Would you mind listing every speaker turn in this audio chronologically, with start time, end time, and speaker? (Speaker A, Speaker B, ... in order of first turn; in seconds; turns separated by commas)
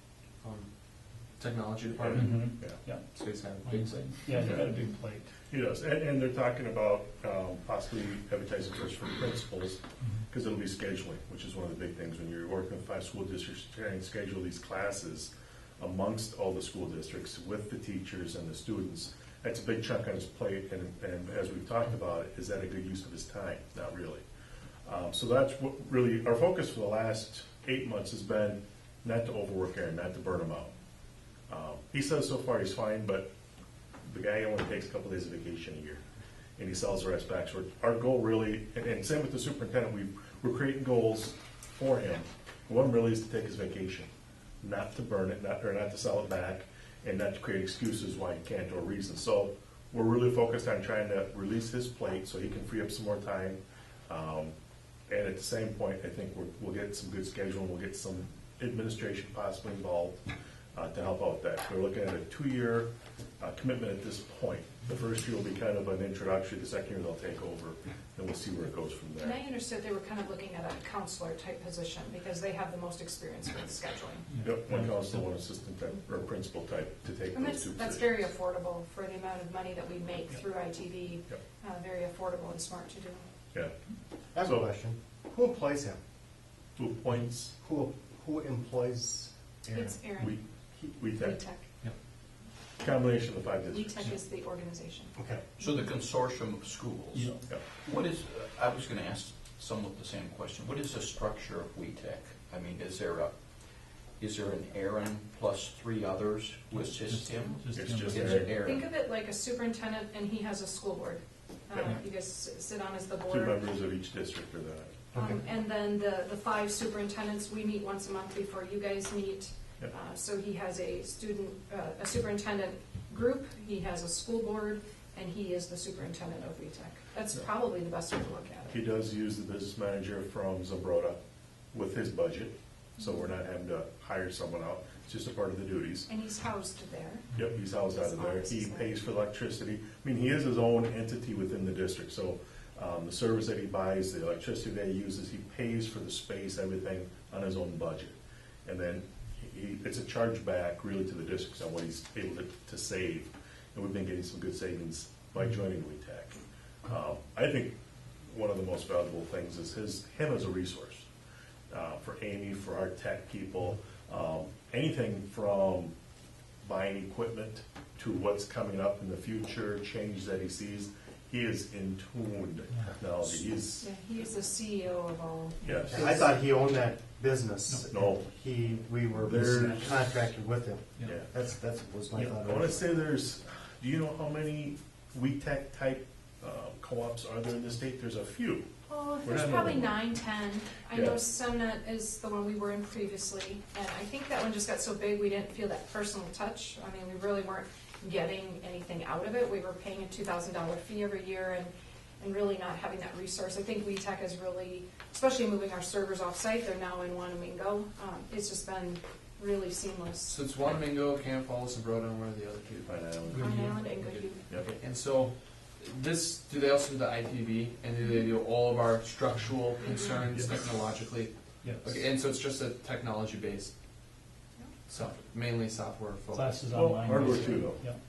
Speaker A: 0.4-0.7, Speaker A: 1.4-2.3, Speaker B: 1.9-2.8, Speaker C: 2.1-3.0, Speaker A: 3.1-4.0, Speaker C: 3.6-5.3, Speaker B: 4.4-4.7, Speaker B: 5.5-24.2, Speaker B: 24.8-30.7, Speaker B: 31.5-33.2, Speaker B: 34.0-36.0, Speaker B: 36.6-44.1, Speaker B: 44.6-54.5, Speaker B: 55.1-60.2, Speaker B: 60.7-62.9, Speaker B: 63.4-69.4, Speaker D: 69.2-74.4, Speaker C: 74.3-75.2, Speaker B: 74.4-78.2, Speaker D: 77.3-83.2, Speaker E: 84.3-86.0, Speaker B: 86.8-87.5, Speaker E: 87.6-90.0, Speaker D: 89.7-90.3, Speaker E: 90.8-91.3, Speaker B: 90.9-91.3, Speaker D: 91.2-91.7, Speaker B: 92.8-94.0, Speaker D: 93.7-95.1, Speaker E: 95.2-95.4, Speaker F: 95.6-103.3, Speaker C: 97.1-97.4, Speaker F: 104.2-108.9, Speaker C: 107.0-108.4, Speaker B: 107.7-108.6, Speaker D: 108.3-113.6, Speaker B: 111.7-112.0, Speaker B: 113.3-115.0, Speaker E: 115.1-115.5, Speaker D: 115.2-128.8, Speaker B: 128.7-131.2, Speaker B: 131.7-136.1, Speaker D: 136.1-137.3, Speaker B: 137.3-157.7, Speaker D: 137.9-138.9, Speaker B: 158.3-161.1, Speaker B: 161.7-165.9, Speaker B: 166.6-173.9, Speaker D: 173.8-176.0, Speaker B: 175.6-176.3, Speaker E: 175.9-182.9, Speaker B: 177.9-178.2, Speaker B: 179.2-180.0, Speaker B: 182.4-188.7, Speaker D: 188.9-210.4, Speaker B: 189.2-190.0, Speaker B: 190.9-191.2, Speaker A: 210.3-212.9, Speaker B: 212.9-213.6, Speaker C: 213.3-213.8, Speaker D: 213.3-214.5, Speaker A: 213.6-221.3, Speaker D: 218.0-218.4, Speaker D: 219.8-220.2, Speaker C: 221.6-221.9, Speaker A: 221.8-223.7, Speaker A: 224.9-226.6, Speaker C: 226.3-228.0, Speaker B: 226.7-227.8